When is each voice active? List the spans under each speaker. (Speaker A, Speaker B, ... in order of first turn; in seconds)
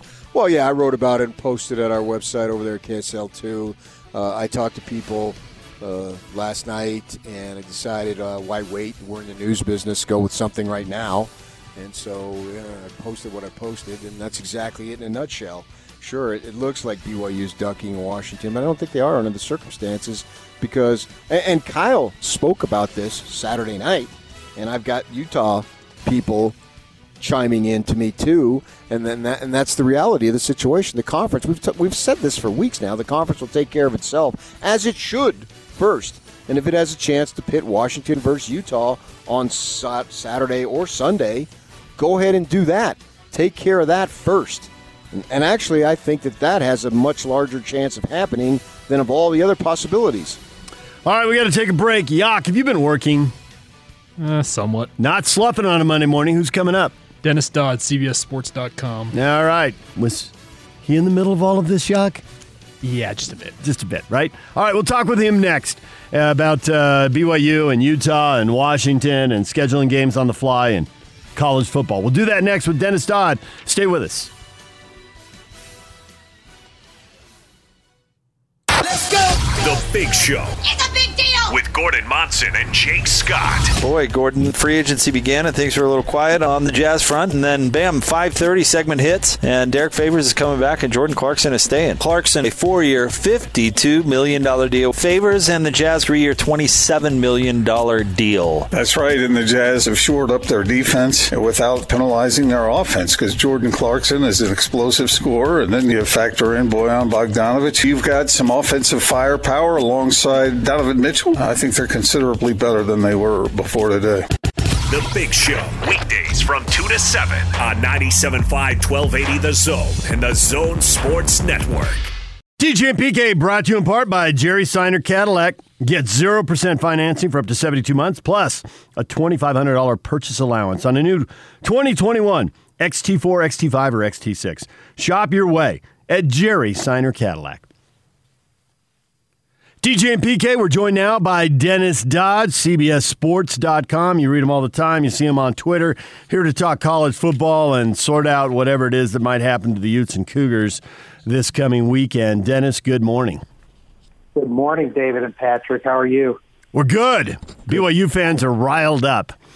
Speaker A: 0.3-26.5, 27.2-50.4
Speaker B: 51.0-53.3, 55.0-56.9, 59.1-60.3, 60.8-62.2, 63.6-74.3, 122.6-137.7, 139.8-153.4, 156.7-159.3
Speaker C: 54.2-54.9, 57.2-59.1, 62.8-63.5
Speaker D: 79.5-80.6, 81.5-83.7, 114.9-122.1
Speaker E: 83.8-98.7
Speaker F: 98.7-114.3
Speaker G: 154.3-156.4